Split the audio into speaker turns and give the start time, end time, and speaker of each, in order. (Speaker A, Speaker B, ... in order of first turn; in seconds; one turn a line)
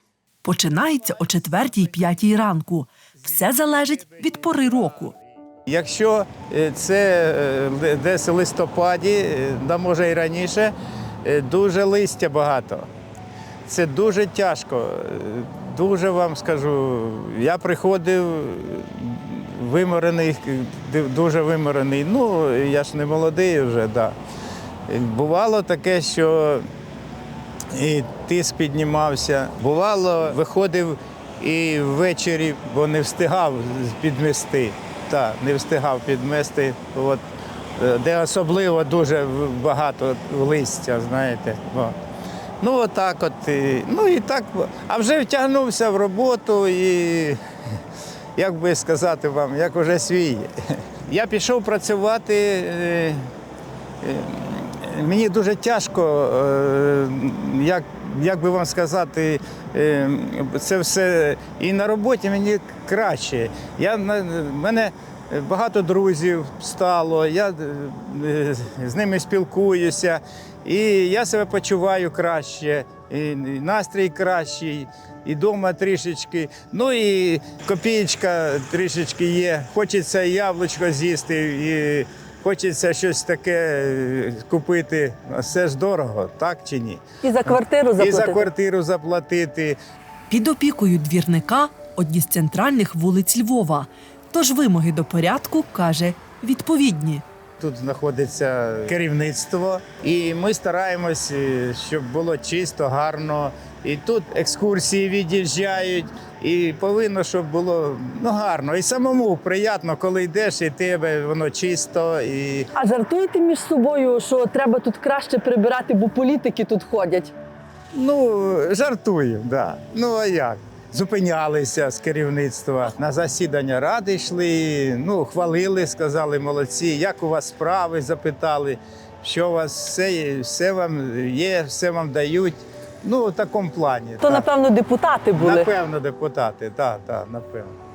Speaker A: 0.4-5.1
Speaker B: 5.7-12.9
Speaker B: 13.7-24.1
Speaker B: 24.9-26.6
Speaker B: 27.7-37.2
Speaker B: 37.8-42.0
Speaker B: 42.6-47.4
Speaker B: 48.4-50.5
Speaker B: 51.0-53.2
Speaker B: 54.0-89.8
Speaker C: 87.2-88.5
Speaker A: 90.3-97.2
Speaker B: 97.6-112.7
Speaker C: 112.7-117.3
Speaker B: 117.9-134.5
Speaker C: 134.2-135.7
Speaker B: 135.3-137.8